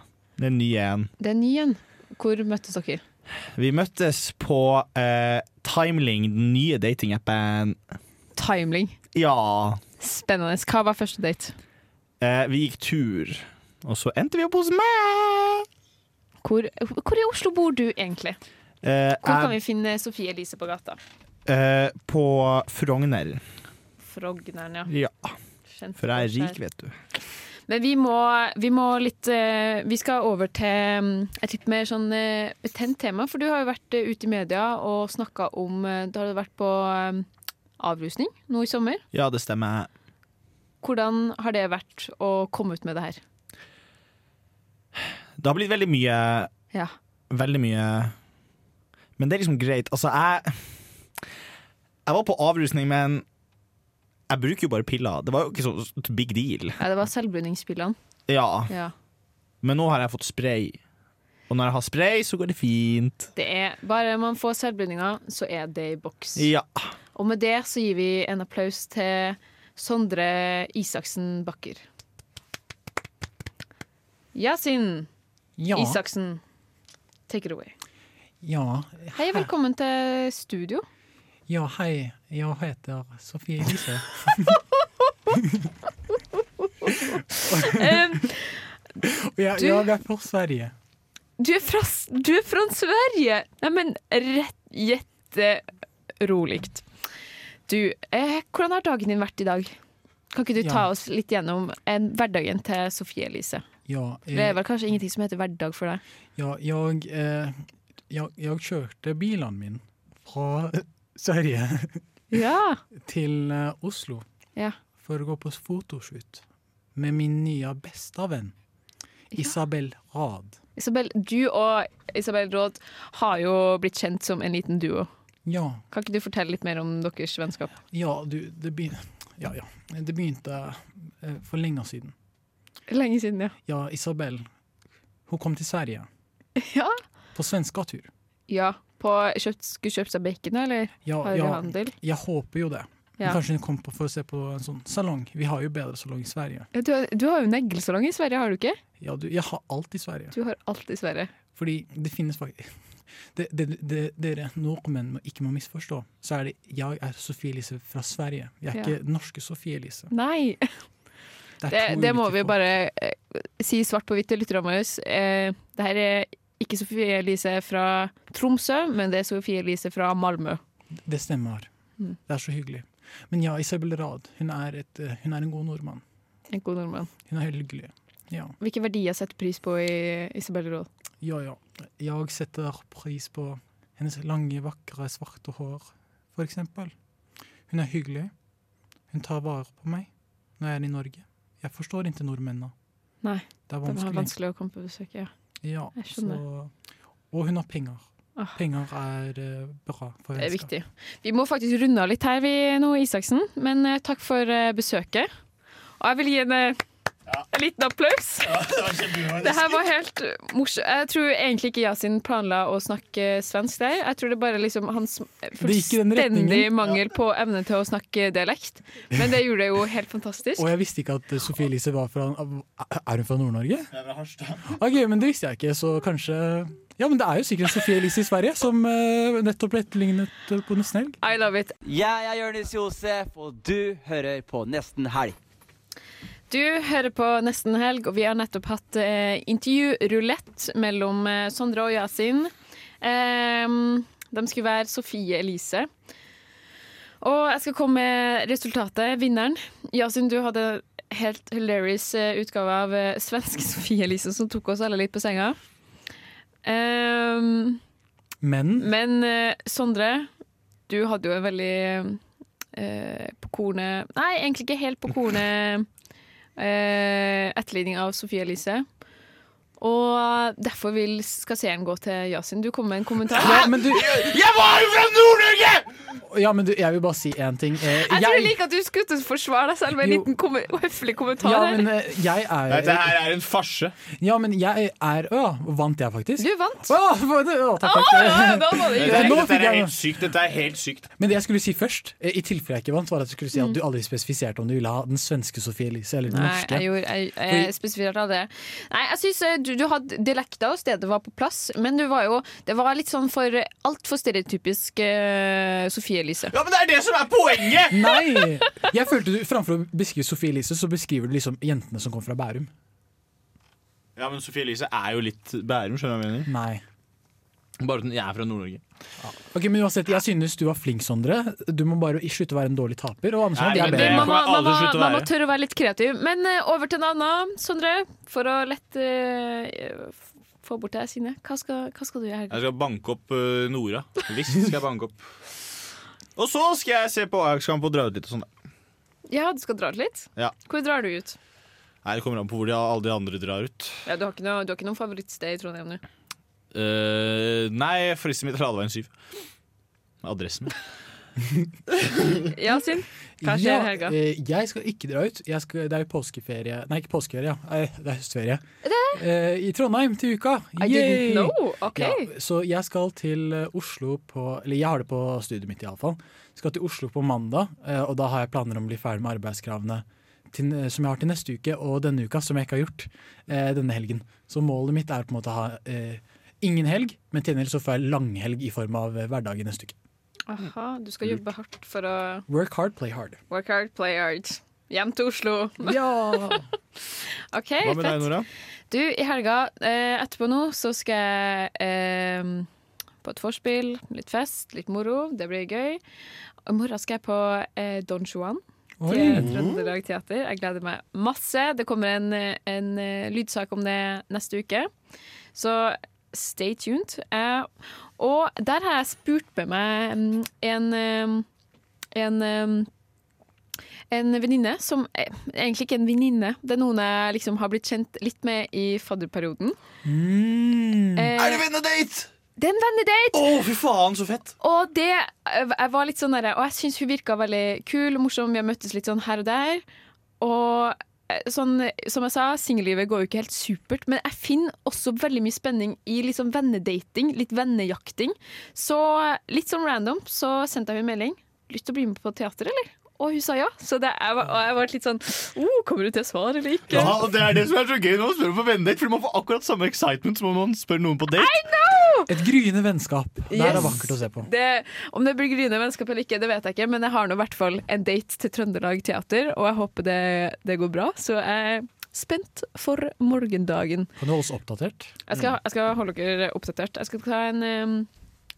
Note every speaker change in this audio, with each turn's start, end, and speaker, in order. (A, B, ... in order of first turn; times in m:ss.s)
0:00.4-0:01.1 A
0:01.2-0:03.0 B
0:03.6-0:07.8 A
0:08.4-0:09.0 B
0:09.1-0:09.8 A
0:10.0-0:11.6 B
0:12.2-0:15.7 A
0:16.4-0:18.4 B
0:18.8-0:19.6 A
0:19.2-0:21.0 B
0:21.5-0:23.4 A
0:24.0-0:24.9 B
0:24.9-0:25.4 A
0:25.7-0:26.6 B
0:26.0-0:27.0 A
0:27.7-0:37.3 B
0:37.8-0:39.0 B
0:39.1-0:39.9 A
0:40.8-0:43.2 B
0:45.4-0:46.5 A
0:47.3-0:48.1 A
0:49.2-0:50.8 A
0:52.1-0:53.2 A
0:54.3-0:56.8 A
0:56.8-0:58.0 B
0:58.3-0:58.7 A
0:58.7-0:58.9 B
0:59.6-1:00.8 A
1:01.5-1:03.3 A
1:03.4-1:06.5 B
1:06.4-1:06.9 A
1:07.2-1:11.8 B
1:14.3-1:15.1 B
1:15.6-1:16.0 C
1:15.7-1:16.4 B
1:17.3-1:17.7 B
1:18.4-1:19.5 C
1:19.2-1:20.9 B
1:21.5-1:24.6 C
1:25.3-1:25.6 C
1:26.8-1:28.6 B
1:26.9-1:28.3 C
1:29.0-1:30.7 C
1:29.6-1:29.8 B
1:31.4-1:35.6 B
1:36.2-1:36.8 B
1:37.7-1:39.8 B
1:40.3-1:43.6 B
1:40.6-1:40.8 C
1:43.9-1:44.6 C
1:44.3-1:46.0 B
1:46.4-1:47.6 C
1:48.1-1:52.0 C
1:52.3-1:52.8 B
1:53.0-1:54.2 C
1:55.0-1:56.4 C
1:57.0-1:58.5 C
1:59.4-2:00.6 C
2:00.8-2:05.1 B
2:05.5-2:05.8 C
2:05.9-2:07.7 B
2:07.9-2:12.1 C
2:12.9-2:13.6 B
2:13.7-2:14.5 C
2:15.3-2:16.1 C
2:16.6-2:17.0 B
2:17.4-2:18.1 C
2:18.5-2:22.0 B
2:21.0-2:26.7 C
2:26.7-2:28.8 B
2:29.0-2:30.4 C
2:30.3-2:31.3 B
2:31.5-2:32.7 C
2:33.3-2:40.1 C
2:40.1-2:40.7 B
2:41.6-2:42.6 C
2:41.7-2:50.6 B
2:51.0-2:51.7 C
2:52.3-2:56.0 C
2:56.5-2:57.1 B
2:57.3-2:58.6 C
2:58.6-3:00.9 B
3:01.2-3:06.9 C
3:07.7-3:08.3 C
3:09.1-3:12.7 C
3:13.2-3:15.3 B
3:13.7-3:14.3 C
3:15.6-3:16.7 C
3:16.0-3:16.4 B
3:17.3-3:20.7 C
3:20.4-3:25.3 B
3:26.0-3:26.8 B
3:27.5-3:28.6 B
3:28.4-3:29.8 A
3:29.3-3:40.7 B
3:35.6-3:36.7 C
3:40.6-3:43.9 C
3:43.9-3:44.7 A
3:44.7-3:51.2 C
3:51.2-3:51.8 B
3:51.8-3:55.4 D
3:56.5-4:05.9 B
4:07.2-4:15.6 B
4:16.6-4:17.8 B
4:18.4-4:18.9 C
4:18.8-4:20.3 B
4:20.9-4:22.2 B
4:22.7-4:25.9 B
4:26.6-4:28.8 B
4:29.8-4:33.7 B
4:33.4-4:34.2 C
4:33.4-4:36.1 A
4:36.2-4:38.6 C
4:38.0-4:41.9 B
4:40.0-4:40.3 C
4:41.4-4:43.2 C
4:42.7-4:44.0 A
4:44.2-4:50.0 C
4:46.4-4:47.0 B
4:47.8-4:49.4 B
4:49.0-4:51.1 A
4:51.2-4:56.9 C
4:56.3-5:06.5 B
4:57.5-4:57.7 C
5:06.5-5:08.1 A
5:07.9-5:12.7 C
5:14.2-5:16.5 A
5:16.5-5:16.8 C
5:17.8-5:18.8 A
5:19.2-5:24.4 C
5:23.6-5:25.3 A
5:23.8-5:32.6 B
5:32.5-5:35.2 A
5:36.4-5:38.5 A
5:39.3-5:41.4 B
5:42.0-5:44.0 A
5:44.1-5:46.0 B
5:46.7-5:49.1 A
5:50.2-5:50.8 A
5:52.3-5:54.2 B
5:53.4-6:20.0 C
5:58.8-5:59.2 B
6:00.8-6:02.3 B
6:20.5-6:22.5 B
6:22.5-6:23.4 C
6:23.5-6:26.6 B
6:25.8-6:26.7 C
6:27.5-6:28.3 B
6:27.8-6:28.5 A
6:28.9-6:32.7 B
6:33.2-6:36.0 B
6:36.7-6:44.9 B
6:39.0-6:39.5 C
6:39.3-6:39.7 A
6:45.6-6:51.5 B
6:52.1-6:52.9 B
6:54.1-6:59.8 B
7:00.0-7:01.3 C
7:01.2-7:01.6 B
7:01.4-7:02.3 A
7:02.6-7:03.5 B
7:03.3-7:04.5 A
7:04.6-7:09.8 B
7:10.4-7:27.2 B
7:26.9-7:31.5 A
7:31.4-7:32.3 B
7:32.3-7:34.5 C
7:33.5-7:44.1 B
7:44.2-7:45.2 C
7:45.3-7:48.1 B